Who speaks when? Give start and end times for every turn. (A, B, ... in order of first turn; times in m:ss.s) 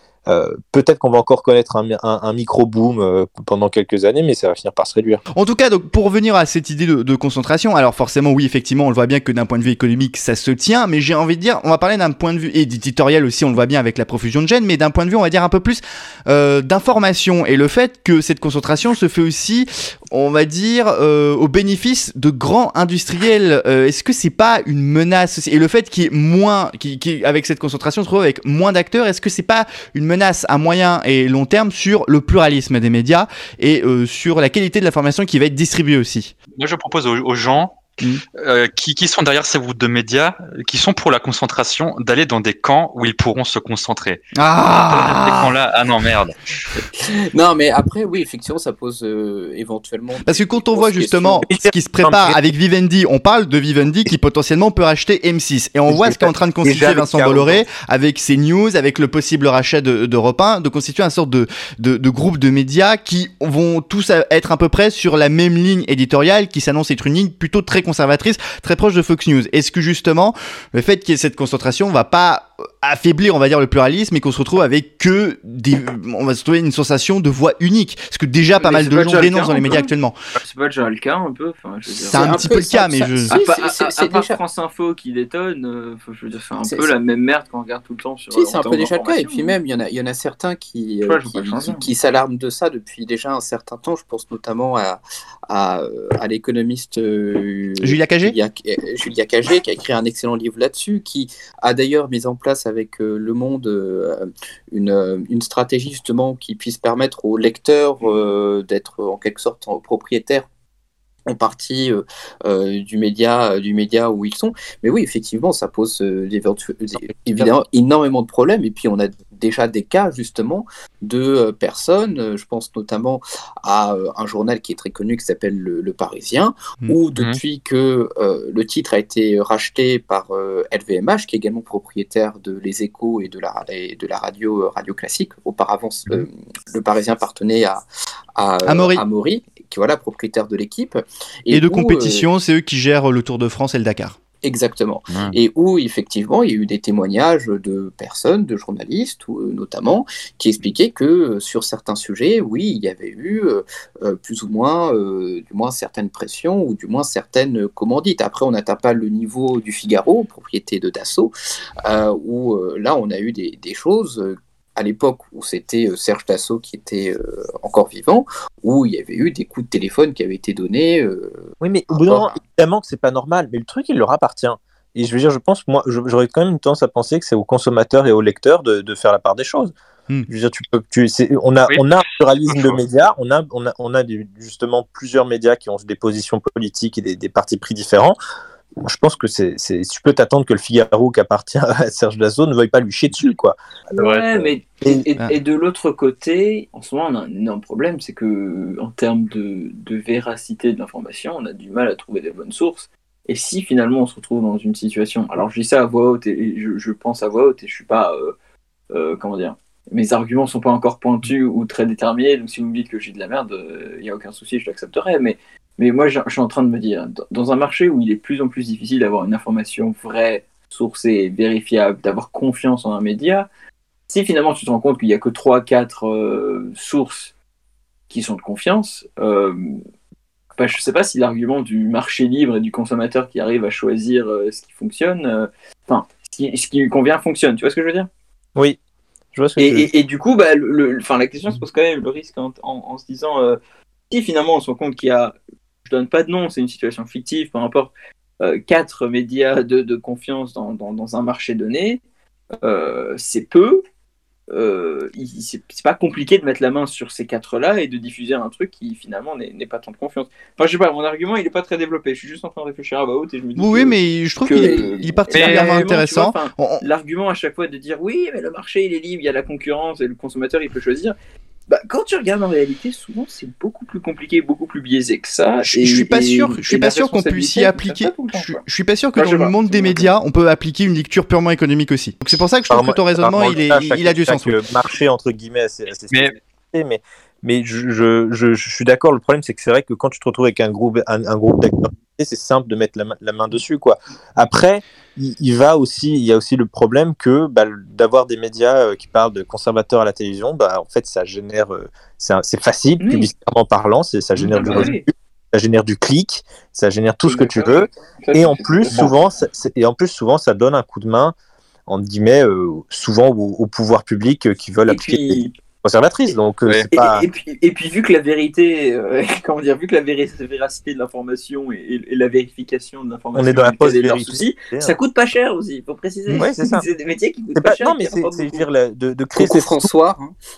0:00.3-0:05.2 A
0:05.3-0:36.3 B
0:36.6-0:37.8 C
0:38.4-0:44.2 C
0:44.4-0:45.6 B
0:44.9-0:46.7 C
0:46.8-0:51.5 D
0:50.2-1:20.2 B
0:51.4-0:52.4 A
0:55.9-0:57.6 A
1:18.6-1:22.4 E
1:22.1-1:23.4 B
1:22.1-1:24.4 D
1:23.3-1:29.5 E
1:26.7-1:26.9 D
1:28.3-1:50.5 D
1:31.0-1:31.9 E
1:37.8-1:38.4 B
1:51.3-2:17.8 D
2:18.4-2:22.2 D
2:18.6-2:19.0 B
2:21.5-2:24.2 B
2:24.4-2:41.3 D
2:25.1-2:25.4 C
2:41.8-2:51.5 D
2:51.6-2:59.7 A
3:00.3-3:08.2 A
3:02.5-3:02.8 C
3:08.8-3:15.0 A
3:14.0-3:28.3 E
3:14.0-3:14.2 C
3:28.9-3:43.5 E
3:44.1-3:47.3 E
3:48.1-3:49.8 E
3:50.6-3:58.1 E
3:59.3-3:59.9 A
3:59.6-4:03.6 E
4:04.1-4:12.0 E
4:12.6-4:13.8 E
4:14.5-4:31.2 E
4:23.6-4:26.8 B
4:25.4-4:25.8 C
4:31.7-4:38.6 E
4:35.6-4:44.6 B
4:39.2-4:40.1 E
4:42.7-5:11.4 A
5:03.0-5:03.3 E
5:04.4-5:04.9 C
5:04.5-5:05.0 E
5:07.2-5:09.2 E
5:11.9-5:17.2 A
5:14.9-5:15.5 E
5:16.9-5:28.7 E
5:23.3-5:25.0 A
5:26.3-5:26.9 A
5:27.6-5:29.9 A
5:29.4-5:30.4 D